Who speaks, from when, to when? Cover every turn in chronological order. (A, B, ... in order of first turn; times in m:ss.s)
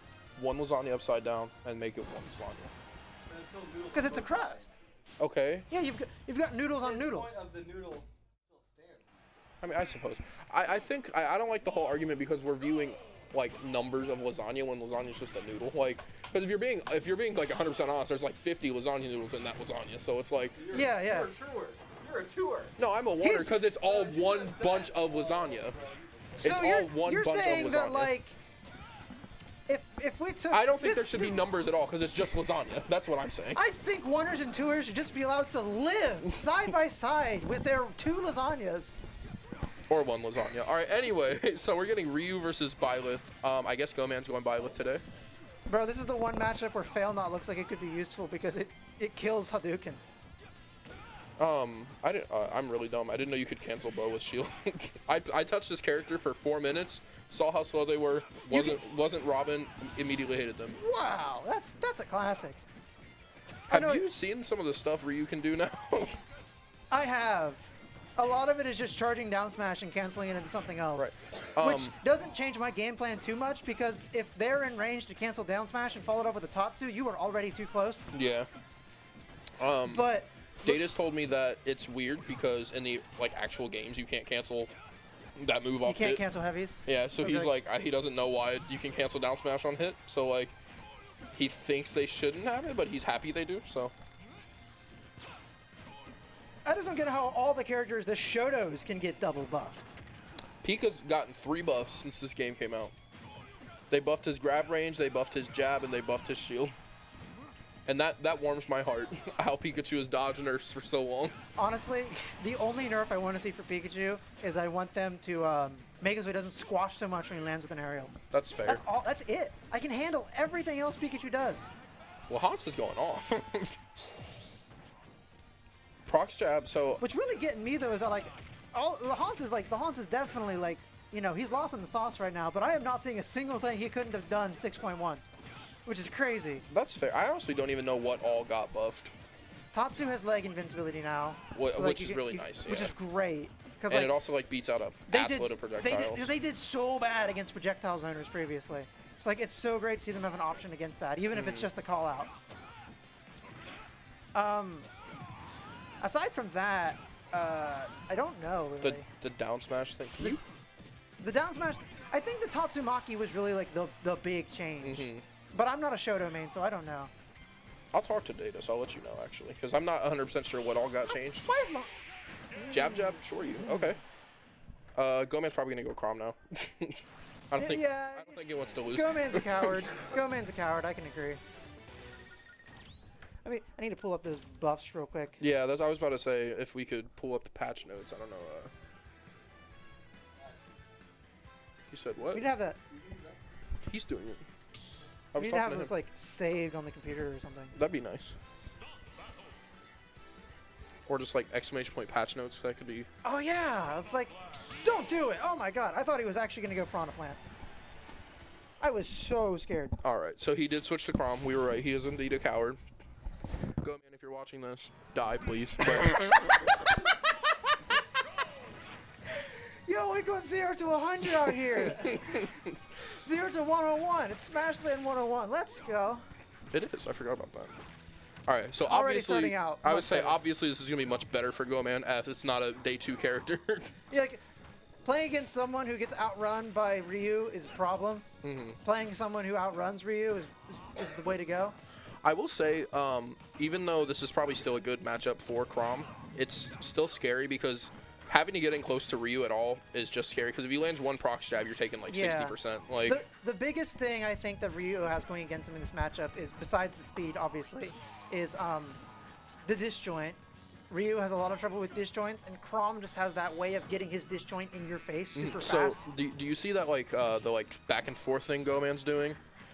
0:00.4-0:02.7 A
0:03.3-0:04.7 B
0:03.9-0:04.7 C
0:05.2-0:05.7 A
0:05.7-0:07.4 C
0:06.8-0:09.2 B
0:09.6-0:20.6 A
0:20.6-0:22.7 B
0:20.7-0:21.3 C
0:22.8-0:25.8 A
0:23.2-0:23.6 C
0:23.8-0:26.4 B
0:26.4-0:28.1 A
0:26.4-0:28.4 C
0:29.7-0:31.4 C
0:30.5-0:33.6 A
0:33.5-0:39.0 C
0:39.9-0:45.0 A
0:45.7-0:50.1 C
0:51.4-1:00.8 A
0:58.5-0:58.8 C
1:00.7-1:02.6 C
1:03.7-1:06.2 A
1:03.7-1:04.0 C
1:06.9-1:18.1 C
1:11.0-1:11.9 A
1:18.1-1:18.5 A
1:19.6-1:20.1 A
1:19.9-1:20.8 C
1:20.6-1:24.7 A
1:25.4-1:26.2 A
1:25.8-1:27.5 C
1:26.8-1:30.5 A
1:31.3-1:33.9 A
1:36.6-1:40.0 C
1:40.6-1:42.9 A
1:43.9-1:46.7 A
1:47.9-1:51.3 A
1:51.6-2:01.7 C
1:58.3-1:58.8 A
2:02.3-2:03.8 A
2:06.1-2:07.0 A
2:07.0-2:15.2 C
2:15.8-2:16.6 C
2:16.7-2:19.1 A
2:19.7-2:24.2 C
2:21.5-2:22.9 A
2:23.9-2:26.3 A
2:25.1-2:32.3 C
2:31.3-2:31.7 A
2:34.3-2:34.9 C
2:36.0-2:39.1 C
2:38.8-2:40.4 A
2:41.2-2:47.1 C
2:44.8-2:45.2 A
2:47.9-2:51.5 A
2:51.3-2:51.9 C
2:52.5-2:54.0 C
2:52.7-2:54.0 A
2:55.0-3:00.0 A
2:57.6-3:01.4 C
3:03.4-3:05.4 C
3:05.4-3:08.7 A
3:11.9-3:12.5 A
3:12.3-3:12.8 C
3:12.9-3:13.4 B
3:13.8-3:14.4 A
3:15.3-3:15.9 A
3:15.4-3:17.8 C
3:17.7-3:18.4 A
3:21.0-3:23.1 A
3:23.2-3:27.4 C
3:28.8-3:30.0 C
3:30.0-3:32.8 A
3:33.8-3:36.6 A
3:36.1-3:36.9 C
3:39.3-3:46.2 C
3:41.9-3:42.7 A
3:46.7-3:47.8 A
3:48.5-3:53.9 A
3:48.8-3:50.4 C
3:54.1-3:54.4 C
3:55.0-3:58.3 C
3:58.4-3:58.8 A
3:58.8-4:01.8 C
4:02.2-4:13.2 A
4:12.1-4:19.0 C
4:19.6-4:20.4 C
4:20.9-4:26.0 C
4:25.3-4:29.4 A